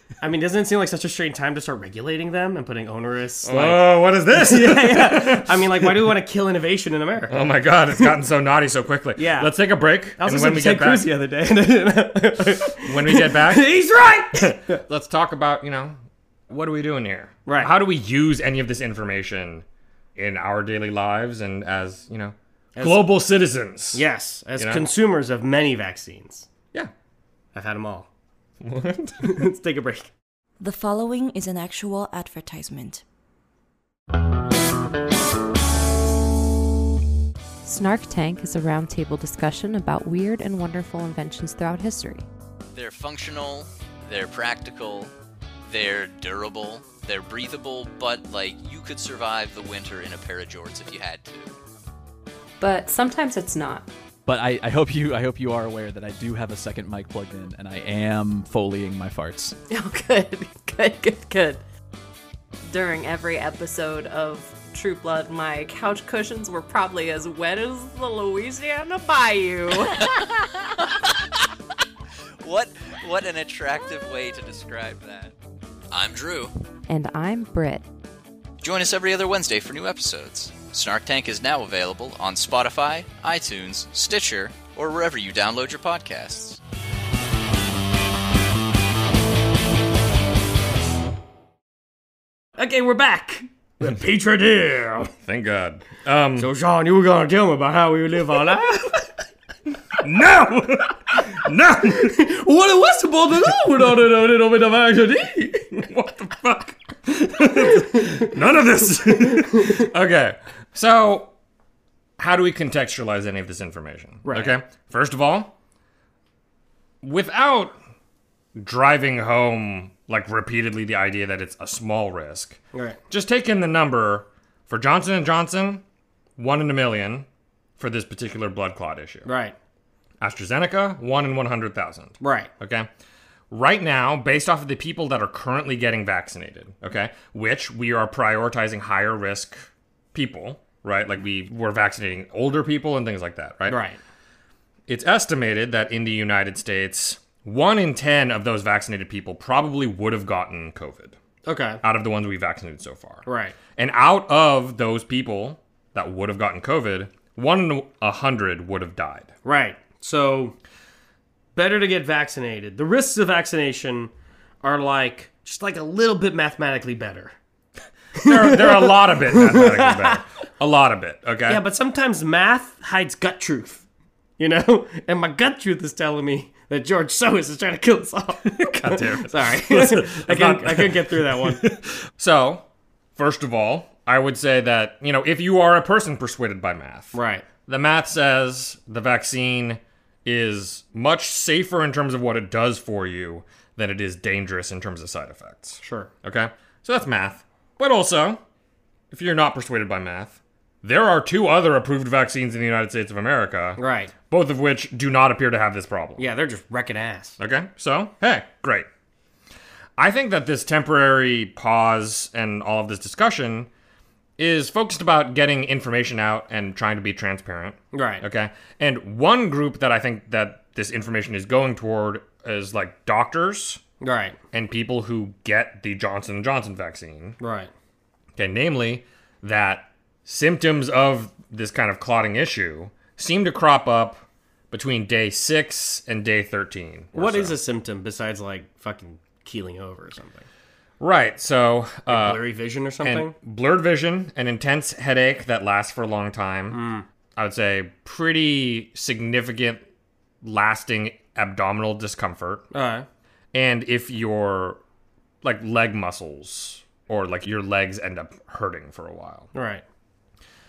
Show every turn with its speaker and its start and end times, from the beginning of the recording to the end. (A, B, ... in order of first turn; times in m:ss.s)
0:00.2-0:07.4 A
0:03.4-0:06.1 B
0:07.3-0:11.1 B
0:09.2-0:09.5 A
0:10.2-0:14.8 A
0:12.8-0:13.7 B
0:14.3-0:16.0 B
0:16.5-0:19.6 B
0:17.5-0:17.7 A
0:20.2-0:24.0 B
0:22.8-0:23.1 A
0:23.9-0:26.5 A
0:24.6-0:24.9 B
0:27.6-0:28.1 A
0:28.6-0:29.4 B
0:29.2-0:30.1 A
0:30.6-0:33.0 C
0:37.6-0:42.3 D
0:42.7-0:45.1 E
0:45.6-0:51.6 E
0:52.6-0:53.9 D
0:54.3-0:59.6 F
0:59.7-1:01.6 D
1:02.7-1:10.3 D
1:12.4-1:15.3 E
1:15.9-1:16.6 E
1:16.9-1:17.8 D
1:18.6-1:26.6 E
1:32.6-1:35.1 A
1:35.2-1:36.5 B
1:36.4-1:39.1 A
1:40.0-1:42.2 B
1:41.9-1:45.8 A
1:45.7-1:51.3 B
1:49.4-1:49.8 A
1:52.2-1:55.5 B
1:54.2-1:54.6 A
1:57.0-1:57.8 B
1:58.6-2:05.8 B
2:02.7-2:03.0 A
2:06.4-2:07.3 B
2:07.8-2:09.3 B
2:09.2-2:09.6 A
2:10.2-2:12.9 B
2:12.2-2:12.5 A
2:13.5-2:23.8 B
2:23.7-2:24.0 A
2:24.9-2:31.2 B
2:31.5-2:31.8 A
2:31.8-2:33.2 B
2:33.3-2:33.6 A
2:33.8-2:39.4 B
2:39.4-2:40.6 A
2:41.6-2:44.1 A
2:44.6-2:47.4 A
2:48.2-2:50.2 A
2:48.2-2:51.6 B
2:51.5-2:53.8 A
2:54.4-3:01.7 A
2:58.5-3:02.6 B
3:03.2-3:18.4 B
3:07.1-3:07.4 A
3:15.8-3:16.1 A
3:19.1-3:26.3 B
3:23.8-3:24.1 A
3:26.2-3:27.4 A
3:27.4-3:28.9 B
3:30.0-3:33.7 B
3:34.4-3:43.8 B
3:37.9-3:38.2 A
3:44.0-3:44.4 A
3:44.5-3:47.4 B
3:47.4-3:47.7 A
3:48.4-3:57.6 B
3:57.1-4:00.5 A
4:01.0-4:02.4 B
4:02.1-4:03.3 A
4:03.0-4:09.8 B
4:06.7-4:07.0 A
4:10.4-4:12.7 B
4:12.7-4:13.1 A
4:13.5-4:14.8 B
4:15.4-4:19.5 B
4:19.5-4:19.8 A